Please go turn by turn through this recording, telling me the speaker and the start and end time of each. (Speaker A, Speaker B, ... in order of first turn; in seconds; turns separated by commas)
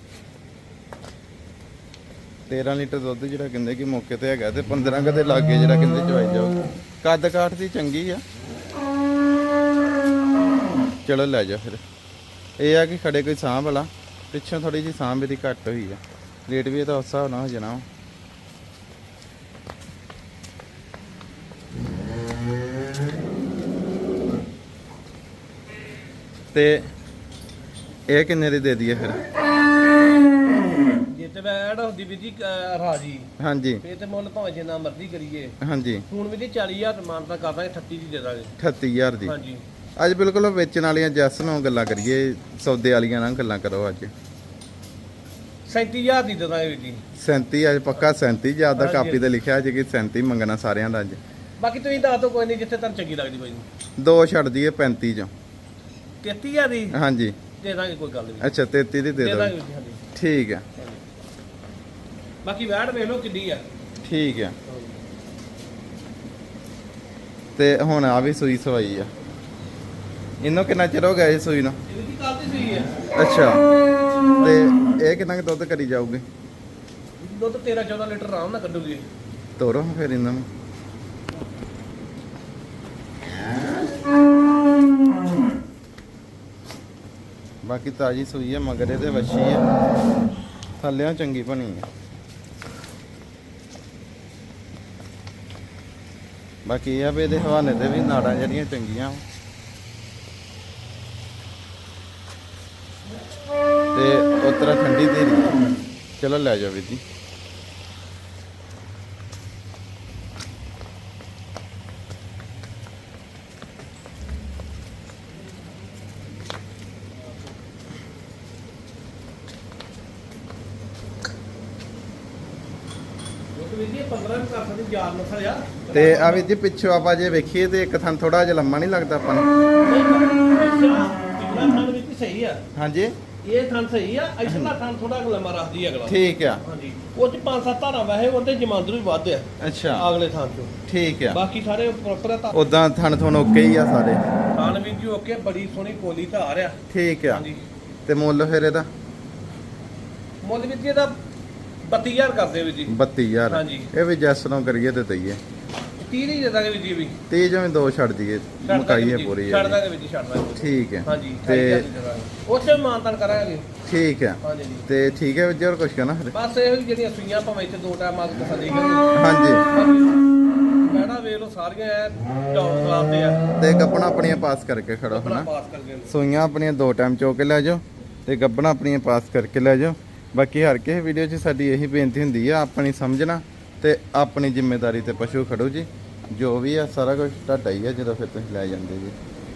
Speaker A: 2.5-8.2, Speaker A: 11.0-11.8, Speaker A: 12.6-17.9, Speaker A: 26.5-26.9, Speaker A: 28.1-29.2, Speaker B: 31.1-33.3, Speaker A: 33.4-33.8, Speaker B: 33.8-35.5, Speaker A: 35.6-36.0, Speaker B: 36.1-38.5, Speaker A: 38.6-39.3, Speaker B: 39.2-39.6, Speaker A: 40.0-44.1, Speaker B: 45.7-47.0, Speaker A: 47.2-51.2, Speaker B: 48.8-49.3, Speaker B: 51.6-53.6, Speaker A: 54.0-55.3, Speaker B: 56.2-57.0, Speaker A: 56.9-57.4, Speaker B: 57.6-58.5, Speaker A: 58.4-59.5, Speaker B: 59.1-60.0, Speaker A: 60.1-60.6, Speaker B: 62.4-63.6, Speaker A: 64.0-64.5, Speaker B: 64.7-65.0, Speaker A: 67.6-69.1, Speaker A: 70.4-71.8, Speaker B: 71.9-73.0, Speaker A: 73.2-73.6, Speaker A: 74.4-76.2, Speaker B: 77.2-79.0, Speaker A: 79.6-80.5, Speaker A: 87.6-89.6, Speaker A: 90.8-91.9, Speaker A: 96.6-99.2, Speaker A: 103.9-105.5, Speaker A: 106.2-107.0, Speaker B: 123.5-126.5, Speaker A: 125.9-129.5, Speaker B: 129.8-132.6, Speaker A: 132.8-133.1, Speaker B: 133.4-140.7, Speaker A: 134.4-134.7, Speaker A: 136.1-136.6, Speaker A: 139.6-140.1, Speaker A: 140.9-141.4, Speaker B: 141.3-142.6, Speaker A: 142.5-144.2, Speaker B: 144.5-146.8, Speaker A: 146.9-147.4, Speaker B: 147.3-147.6, Speaker A: 148.1-148.9, Speaker B: 150.4-151.2, Speaker B: 151.8-152.9, Speaker A: 152.9-155.4, Speaker B: 153.5-153.9, Speaker B: 156.0-157.2, Speaker A: 157.3-159.8, Speaker B: 158.6-163.7, Speaker A: 160.6-161.9, Speaker A: 163.8-166.3, Speaker B: 164.4-164.9, Speaker B: 166.3-169.1, Speaker A: 169.1-169.6, Speaker B: 169.7-170.2, Speaker B: 170.8-173.4, Speaker A: 173.6-175.5, Speaker B: 175.1-176.1, Speaker A: 176.1-189.2